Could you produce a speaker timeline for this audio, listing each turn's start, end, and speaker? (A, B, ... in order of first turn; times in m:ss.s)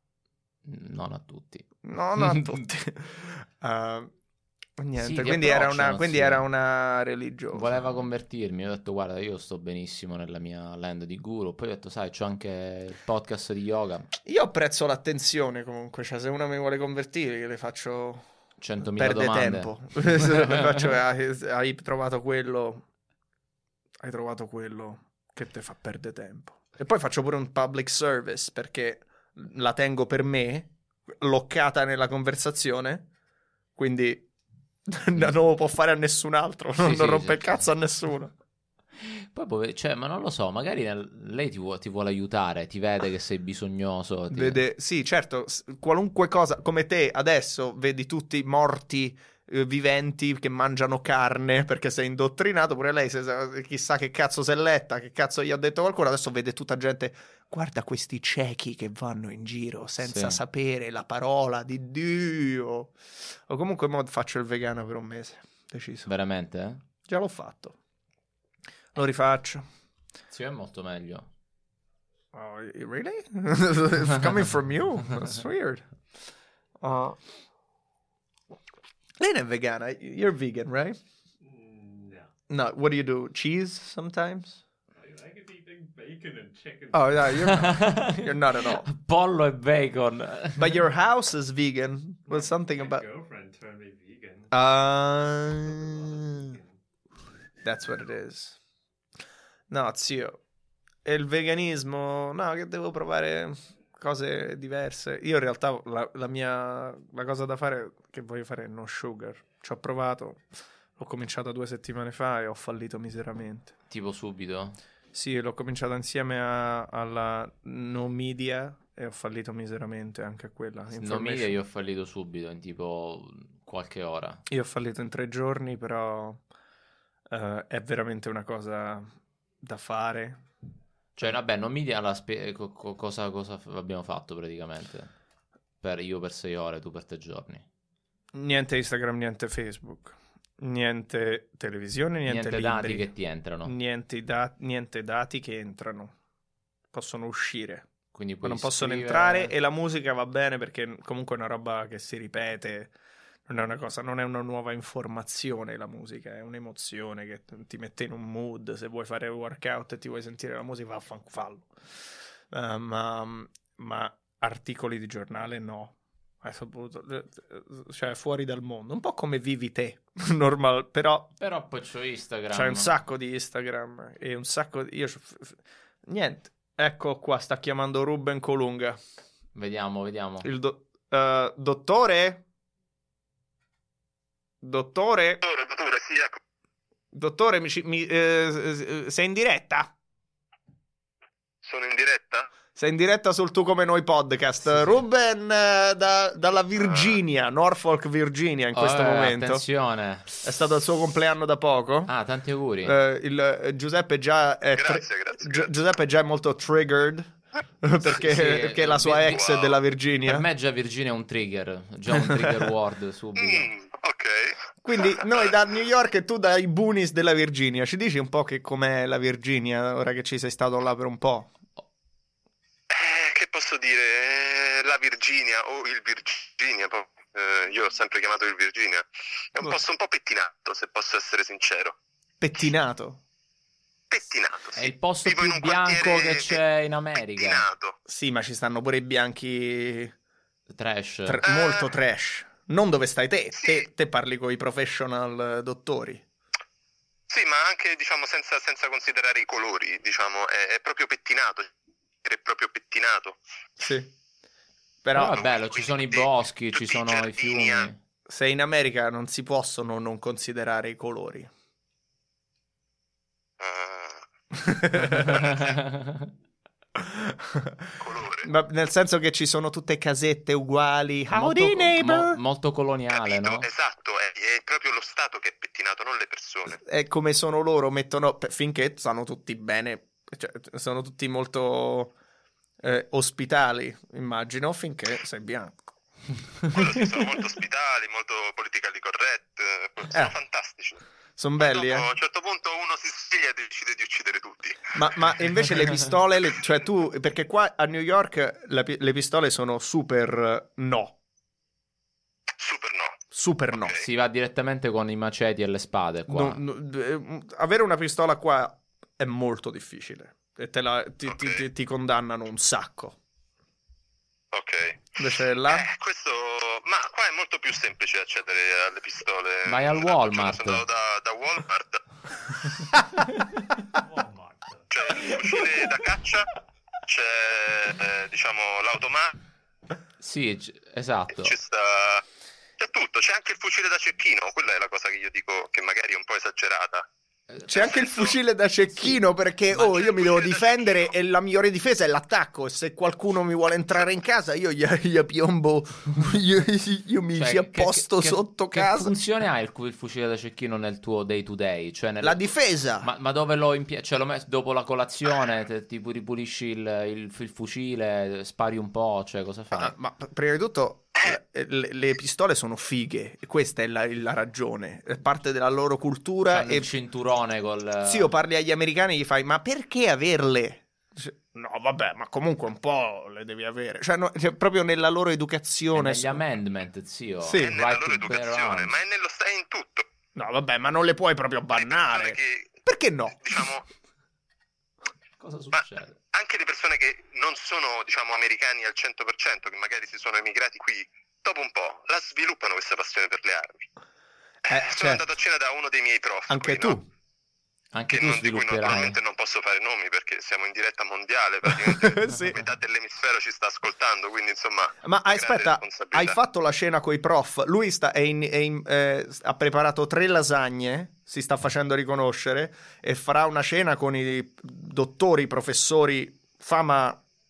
0:00.6-0:02.6 A
0:01.8-0:04.1 B
0:04.8-0:08.0 B
0:05.0-0:06.4 A
0:07.5-0:14.1 A
0:14.2-0:18.2 B
0:18.6-0:20.8 A
0:18.8-0:22.8 B
0:24.0-0:33.0 B
0:33.8-0:34.3 B
0:34.9-0:38.3 B
0:36.8-0:37.6 A
0:39.0-0:44.6 A
0:44.3-1:03.0 B
1:00.0-1:00.4 A
1:03.5-1:06.1 B
1:06.0-1:06.8 A
1:07.1-1:07.8 B
1:08.9-1:09.6 B
1:10.3-1:11.3 A
1:12.3-1:15.8 B
1:16.8-1:17.2 B
1:19.2-1:21.0 B
1:21.4-1:22.3 C
1:22.5-1:24.6 B
1:24.9-1:27.7 C
1:26.9-1:28.8 B
1:27.4-1:30.8 A
1:30.6-1:33.0 B
1:32.3-1:34.5 C
1:34.5-1:36.6 B
1:35.5-1:36.8 C
1:37.6-1:38.6 B
1:39.7-1:40.4 B
1:41.0-1:50.4 B
1:51.0-1:53.7 B
1:53.9-1:54.8 A
1:55.1-2:01.6 B
2:00.9-2:04.4 A
2:04.5-2:06.4 B
2:07.3-2:09.1 B
2:09.6-2:10.4 B
2:11.2-2:15.1 A
2:15.8-2:17.6 A
2:18.3-2:23.1 B
2:22.2-2:23.7 A
2:23.6-2:26.1 B
2:26.9-2:27.9 B
2:28.1-2:29.5 A
2:28.4-2:32.9 B
2:33.5-2:41.7 B
2:42.5-2:51.3 B
2:51.4-2:52.9 A
2:52.5-2:59.0 B
2:59.5-3:00.5 A
3:00.4-3:02.4 B
3:04.6-3:05.4 B
3:05.4-3:06.4 D
3:07.1-3:09.9 B
3:11.6-3:12.5 D
3:12.8-3:19.6 B
3:18.7-3:20.3 A
3:20.4-3:22.1 B
3:22.1-3:23.0 A
3:22.8-3:30.4 B
3:24.8-3:25.7 D
3:28.0-3:29.4 A
3:29.3-3:29.8 D
3:30.2-3:33.7 A
3:32.2-3:32.5 B
3:33.4-3:34.6 D
3:34.8-3:41.5 B
3:42.9-3:51.9 D
3:52.4-3:53.2 B
3:54.1-3:56.6 D
3:54.8-3:57.6 A
3:57.3-3:57.9 D
3:58.1-4:00.1 B
4:00.7-4:01.4 A
4:01.2-4:06.2 B
4:01.4-4:01.8 D
4:07.3-4:11.7 D
4:12.2-4:13.4 D
4:13.8-4:14.1 B
4:15.0-4:15.4 B
4:15.1-4:18.0 A
4:15.2-4:17.9 D
4:18.3-4:21.5 B
4:23.6-4:24.2 D
4:24.6-4:25.3 B
4:25.0-4:26.3 A
4:25.4-4:25.6 D
4:27.0-4:32.4 B
4:28.0-4:28.5 D
4:31.3-4:33.7 A
4:33.1-4:36.8 D
4:36.7-4:42.1 B
4:42.8-4:45.8 B
4:46.7-4:51.0 D
4:50.1-4:50.3 B
4:51.4-4:52.1 B
4:51.6-4:55.0 D
4:54.9-5:01.2 B
5:02.6-5:03.2 D
5:03.3-5:04.0 B
5:03.7-5:04.0 D
5:04.0-5:06.6 A
5:06.3-5:13.2 B
5:11.2-5:11.6 D
5:14.5-5:22.0 D
5:15.2-5:15.8 B
5:19.6-5:20.8 A
5:23.9-5:25.3 C
5:24.9-5:26.5 D
5:27.0-5:29.4 D
5:30.2-5:31.5 A
5:31.4-5:32.2 D
5:32.8-5:37.1 D
5:37.7-5:49.1 B
5:37.7-5:38.4 D
5:39.7-5:41.1 D
5:47.3-5:59.9 A
5:52.2-5:53.1 B
5:59.7-6:06.9 B
6:06.5-6:08.3 A
6:08.0-6:16.4 B
6:15.9-6:18.9 A
6:17.4-6:17.7 B
6:17.6-6:20.0 D
6:20.4-6:23.6 B
6:21.7-6:22.7 D
6:23.4-6:23.8 D
6:25.4-6:26.2 A
6:25.7-6:33.8 D
6:34.7-6:35.2 B
6:34.7-6:37.0 D
6:36.5-6:37.0 B
6:37.9-6:39.2 A
6:38.1-6:46.4 D
6:41.6-6:42.6 B
6:45.0-6:57.2 B